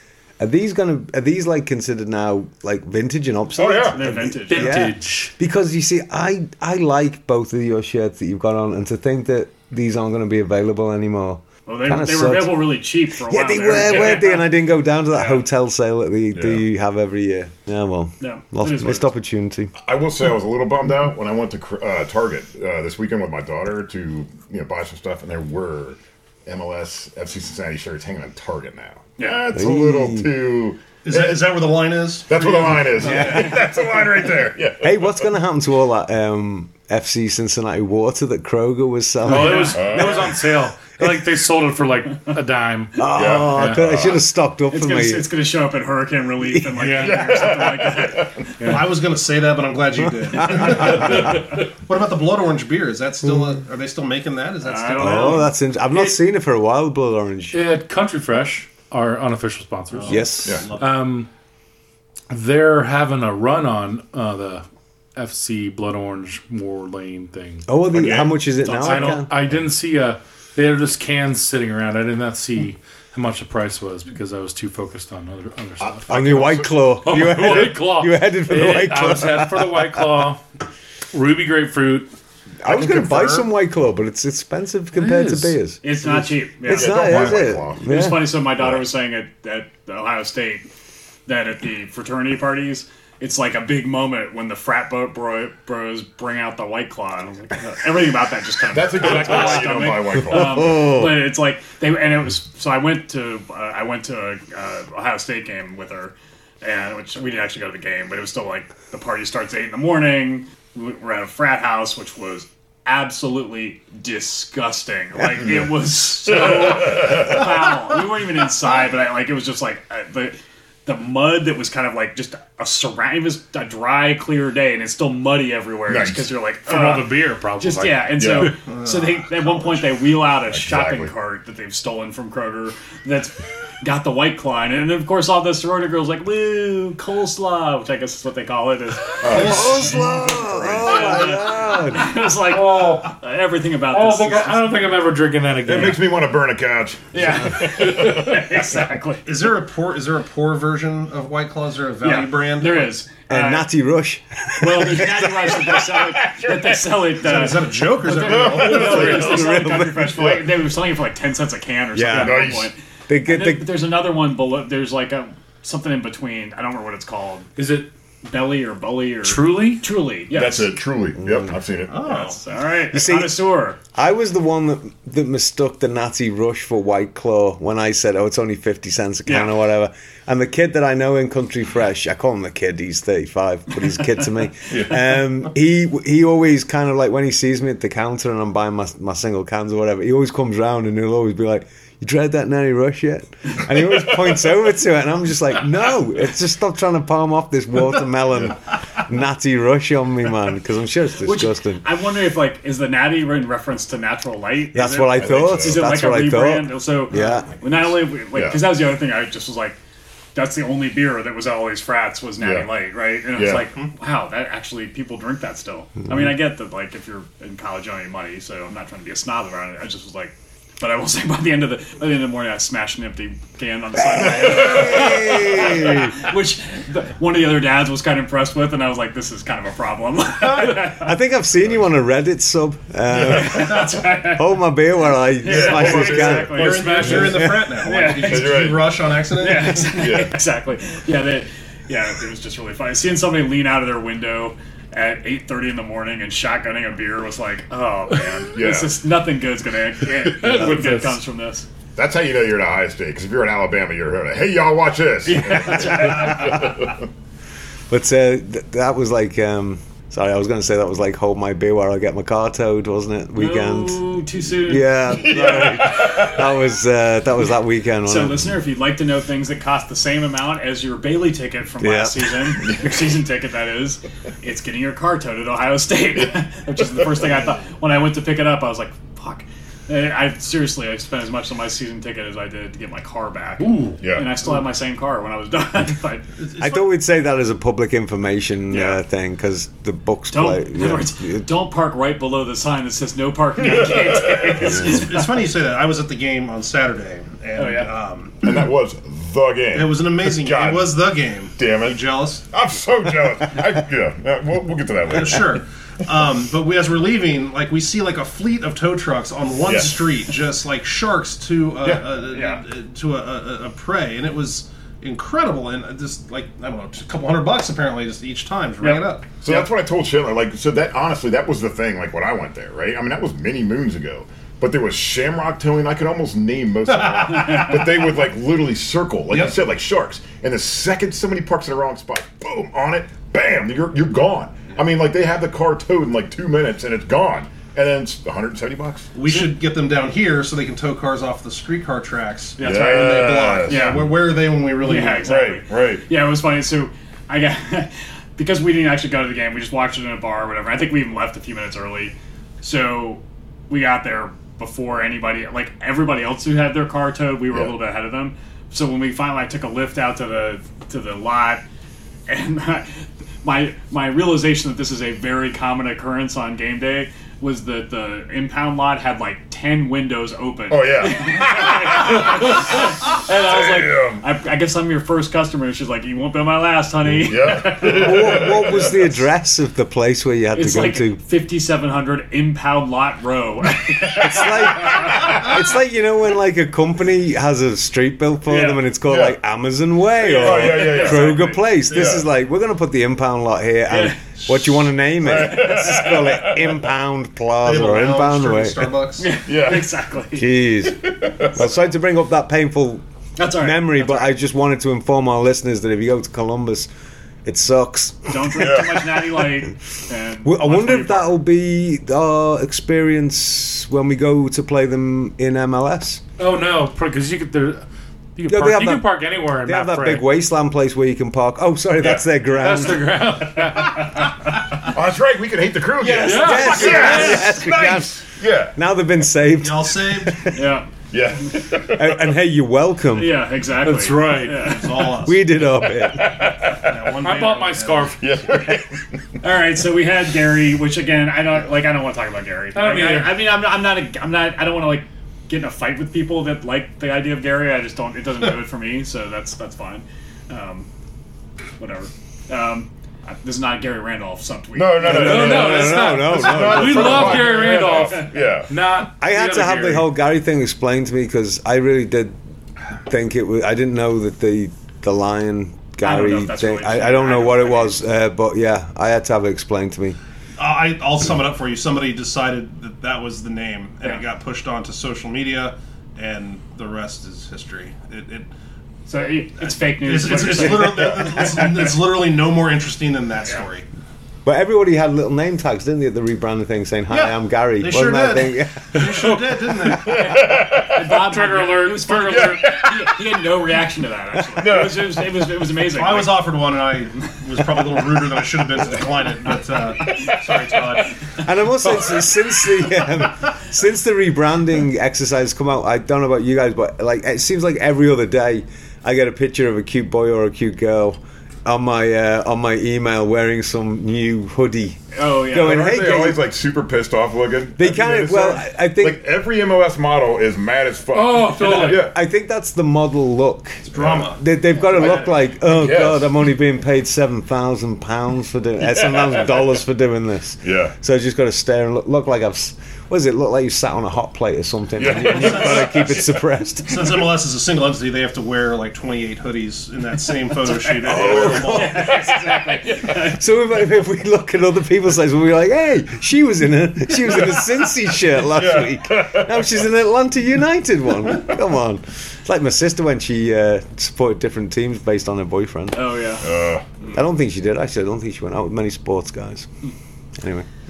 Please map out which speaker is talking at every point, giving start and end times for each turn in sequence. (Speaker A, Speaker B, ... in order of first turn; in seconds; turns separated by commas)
Speaker A: 0.4-19.7, Speaker B: 3.5-4.8, Speaker C: 3.6-4.1, Speaker D: 4.5-5.3, Speaker B: 11.7-14.5, Speaker B: 15.1-15.4, Speaker C: 16.3-16.6, Speaker B: 18.2-19.1, Speaker C: 19.8-31.6, Speaker B: 29.2-29.4, Speaker A: 29.5-30.3, Speaker E: 31.0-33.6, Speaker C: 32.3-35.2, Speaker A: 33.0-33.5, Speaker A: 34.8-39.9, Speaker D: 39.2-43.8, Speaker B: 39.3-40.2, Speaker C: 39.7-40.3, Speaker A: 43.0-45.3, Speaker C: 43.1-44.2, Speaker B: 44.7-48.4, Speaker D: 46.8-47.2, Speaker C: 46.9-48.5, Speaker E: 48.6-55.5, Speaker B: 54.6-55.5, Speaker A: 55.0-57.6, Speaker D: 57.5-61.3, Speaker E: 60.0-61.0, Speaker A: 60.1-60.6, Speaker D: 62.3-64.6, Speaker D: 65.1-67.7, Speaker A: 67.7-69.3, Speaker C: 67.9-68.3, Speaker D: 68.7-76.2, Speaker C: 75.8-76.9, Speaker A: 76.1-79.9, Speaker D: 77.0-80.4, Speaker D: 81.1-82.1, Speaker A: 82.6-88.3, Speaker E: 82.7-83.5, Speaker D: 84.9-85.6, Speaker B: 85.8-90.7, Speaker C: 86.7-87.8, Speaker B: 91.3-144.8, Speaker C: 98.7-100.8, Speaker A: 99.0-101.2, Speaker C: 116.3-117.5, Speaker C: 125.9-126.3, Speaker D: 126.7-128.4, Speaker C: 128.2-128.5, Speaker E: 128.7-129.8, Speaker C: 130.5-131.1, Speaker C: 139.2-140.9, Speaker A: 139.3-142.2, Speaker E: 139.3-140.8, Speaker D: 142.5-143.1, Speaker D: 143.9-146.1, Speaker C: 145.6-148.5, Speaker B: 147.1-149.3, Speaker E: 149.2-152.9, Speaker B: 152.0-153.7, Speaker A: 153.3-155.8, Speaker B: 154.6-167.5, Speaker C: 155.7-156.9, Speaker E: 157.2-159.2, Speaker C: 158.2-159.6, Speaker A: 158.6-160.4, Speaker C: 160.1-160.4, Speaker A: 161.9-163.7, Speaker C: 162.1-162.7, Speaker D: 167.6-167.9, Speaker B: 168.2-170.8, Speaker D: 169.2-169.8, Speaker C: 170.3-172.2, Speaker A: 171.2-171.5, Speaker E: 171.9-172.4, Speaker B: 172.0-173.8, Speaker A: 172.9-201.8, Speaker B: 179.2-179.5, Speaker C: 184.7-185.2, Speaker B: 201.2-209.8, Speaker A: 204.7-207.5, Speaker C: 205.2-205.8, Speaker C: 208.3-208.6, Speaker B: 210.3-231.1, Speaker C: 212.4-212.7, Speaker C: 213.3-213.7, Speaker A: 224.2-226.2, Speaker C: 224.2-225.2, Speaker A: 230.6-237.7, Speaker B: 233.1-234.5, Speaker B: 235.4-238.7, Speaker C: 235.4-237.1, Speaker E: 236.4-240.0, Speaker C: 238.2-239.1, Speaker B: 239.3-251.7, Speaker C: 239.9-240.3, Speaker C: 248.5-249.0, Speaker D: 250.2-251.2, Speaker C: 251.9-257.1, Speaker B: 255.2-256.7, Speaker A: 257.9-264.1, Speaker B: 263.3-266.3, Speaker A: 264.6-268.5, Speaker C: 265.2-266.4, Speaker B: 268.0-286.2, Speaker A: 271.8-272.4, Speaker C: 272.6-273.1, Speaker C: 276.8-277.1, Speaker D: 283.6-284.0, Speaker C: 284.0-284.4, Speaker E: 286.4-286.8, Speaker A: 286.6-291.5, Speaker B: 288.7-289.0, Speaker B: 290.3-295.2, Speaker C: 293.6-294.8, Speaker E: 294.2-298.5, Speaker B: 297.5-297.9, Speaker C: 298.4-305.6, Speaker E: 299.7-302.4, Speaker E: 305.1-319.6, Speaker C: 309.6-310.1, Speaker B: 312.3-312.6, Speaker B: 318.8-319.1, Speaker C: 319.4-339.1, Speaker E: 326.9-328.0, Speaker E: 329.3-329.6, Speaker E: 339.1-345.3, Speaker B: 342.6-344.1, Speaker C: 342.6-344.2, Speaker B: 344.8-361.6, Speaker C: 345.1-346.0, Speaker B: 362.3-378.5, Speaker C: 370.7-374.2, Speaker C: 377.1-379.1, Speaker A: 377.8-381.2, Speaker B: 380.5-385.5, Speaker A: 384.1-398.9, Speaker C: 385.1-385.4, Speaker B: 388.4-388.8, Speaker C: 389.1-389.4, Speaker B: 390.2-391.6, Speaker C: 390.2-392.2, Speaker E: 391.9-392.2, Speaker B: 393.9-394.2, Speaker C: 395.2-396.8, Speaker B: 395.4-396.2, Speaker E: 397.6-399.4, Speaker B: 399.2-400.5, Speaker C: 399.4-399.9, Speaker A: 400.3-403.0, Speaker C: 400.9-401.6, Speaker B: 403.4-404.3, Speaker A: 403.6-406.9, Speaker A: 407.4-409.0, Speaker B: 408.3-411.4, Speaker C: 408.5-409.0, Speaker A: 410.4-416.2, Speaker D: 416.4-417.8, Speaker D: 418.4-420.3, Speaker A: 418.5-423.1, Speaker D: 422.5-424.2, Speaker C: 424.9-428.7, Speaker B: 426.0-427.2, Speaker D: 426.1-427.5, Speaker A: 426.2-430.6, Speaker E: 429.6-430.5, Speaker B: 430.5-430.9, Speaker C: 431.1-432.2, Speaker A: 431.9-433.5, Speaker B: 433.1-435.1, Speaker D: 433.8-434.8, Speaker E: 434.5-435.6, Speaker A: 435.2-436.4, Speaker C: 435.9-437.0, Speaker E: 436.8-438.1, Speaker D: 437.2-438.4, Speaker C: 438.2-439.0, Speaker B: 439.4-450.9, Speaker D: 442.7-443.4, Speaker B: 451.8-455.7, Speaker C: 454.7-458.7, Speaker A: 455.0-457.6, Speaker D: 455.0-460.1, Speaker B: 457.3-458.3, Speaker A: 459.1-462.4, Speaker A: 463.1-470.2, Speaker B: 466.0-468.0, Speaker E: 470.6-478.5, Speaker B: 479.1-481.9, Speaker E: 479.9-483.9, Speaker A: 484.4-489.0, Speaker E: 487.1-490.3, Speaker B: 489.1-496.5, Speaker C: 489.9-491.1, Speaker D: 491.0-492.8, Speaker C: 492.3-493.2, Speaker C: 494.5-495.2, Speaker E: 495.9-501.2, Speaker A: 501.4-516.4, Speaker B: 515.1-515.9, Speaker C: 515.5-522.1, Speaker A: 517.8-519.2, Speaker D: 521.1-522.1, Speaker A: 521.6-537.0, Speaker E: 523.8-524.4, Speaker C: 523.9-524.3, Speaker C: 524.9-526.4, Speaker C: 530.6-530.9, Speaker C: 535.0-536.2, Speaker E: 536.9-542.0, Speaker B: 540.7-543.4, Speaker A: 541.0-542.4, Speaker C: 541.2-542.4, Speaker A: 543.0-556.1, Speaker C: 548.4-549.8, Speaker B: 555.9-556.5, Speaker C: 556.4-556.8, Speaker A: 557.1-559.7, Speaker A: 560.4-560.7